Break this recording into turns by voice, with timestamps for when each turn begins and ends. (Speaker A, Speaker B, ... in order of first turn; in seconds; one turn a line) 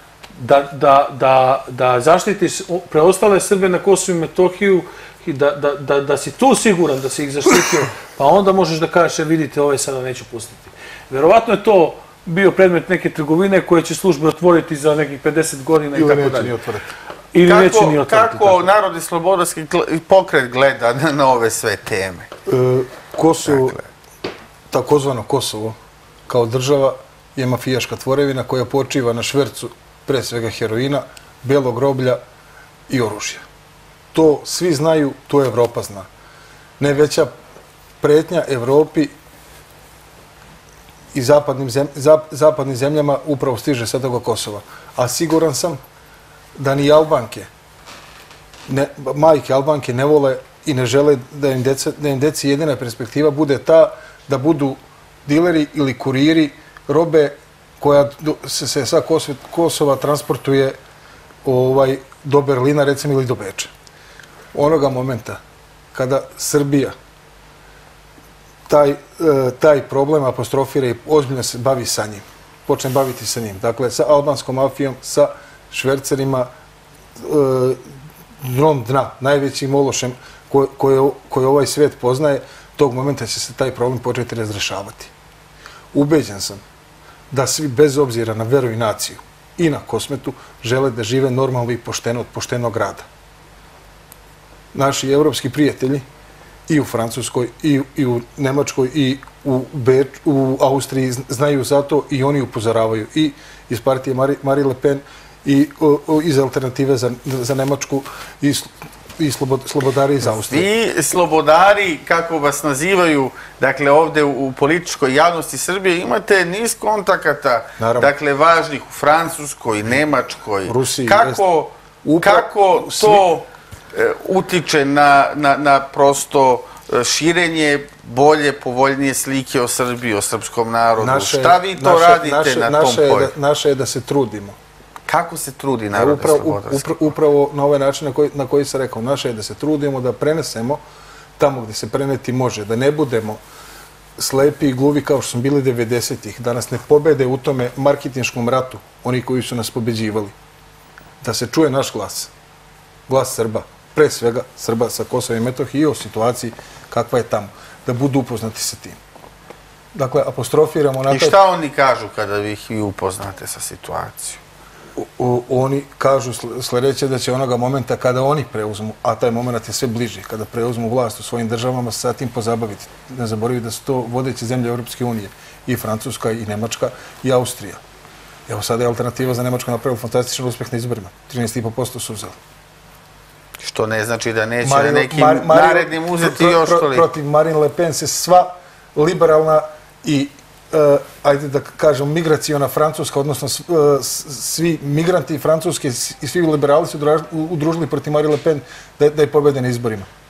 Speaker A: 0.4-16.5
Speaker B: 15.9-16.9
Speaker A: 17.3-18.6
Speaker C: 17.4-22.3
Speaker B: 22.5-23.8
Speaker C: 23.5-23.8
Speaker B: 24.7-25.8
Speaker B: 26.3-32.2
Speaker B: 32.9-33.4
Speaker B: 34.1-36.1
Speaker B: 36.8-37.3
Speaker B: 38.0-39.1
Speaker B: 41.1-45.8
Speaker B: 46.6-47.5
Speaker B: 48.7-60.8
Speaker B: 61.5-63.7
Speaker B: 64.5-65.4
Speaker B: 65.9-67.0
Speaker B: 68.7-76.5
Speaker B: 77.2-77.8
Speaker B: 78.4-85.1
Speaker B: 85.9-86.6
Speaker B: 87.3-93.1
Speaker B: 94.7-96.1
Speaker B: 96.7-110.7
Speaker C: 110.2-133.3
Speaker B: 117.8-118.1
Speaker B: 120.7-121.4
Speaker B: 122.0-123.2
Speaker B: 131.0-134.6
Speaker C: 135.1-137.1
Speaker B: 135.9-140.8
Speaker B: 141.4-143.4
Speaker B: 144.2-150.3
Speaker B: 151.2-152.3
Speaker B: 153.1-159.0
Speaker B: 159.9-161.4
Speaker C: 161.1-164.4
Speaker B: 165.0-177.8
Speaker B: 178.5-182.3
Speaker C: 183.6-187.1
Speaker B: 184.6-200.1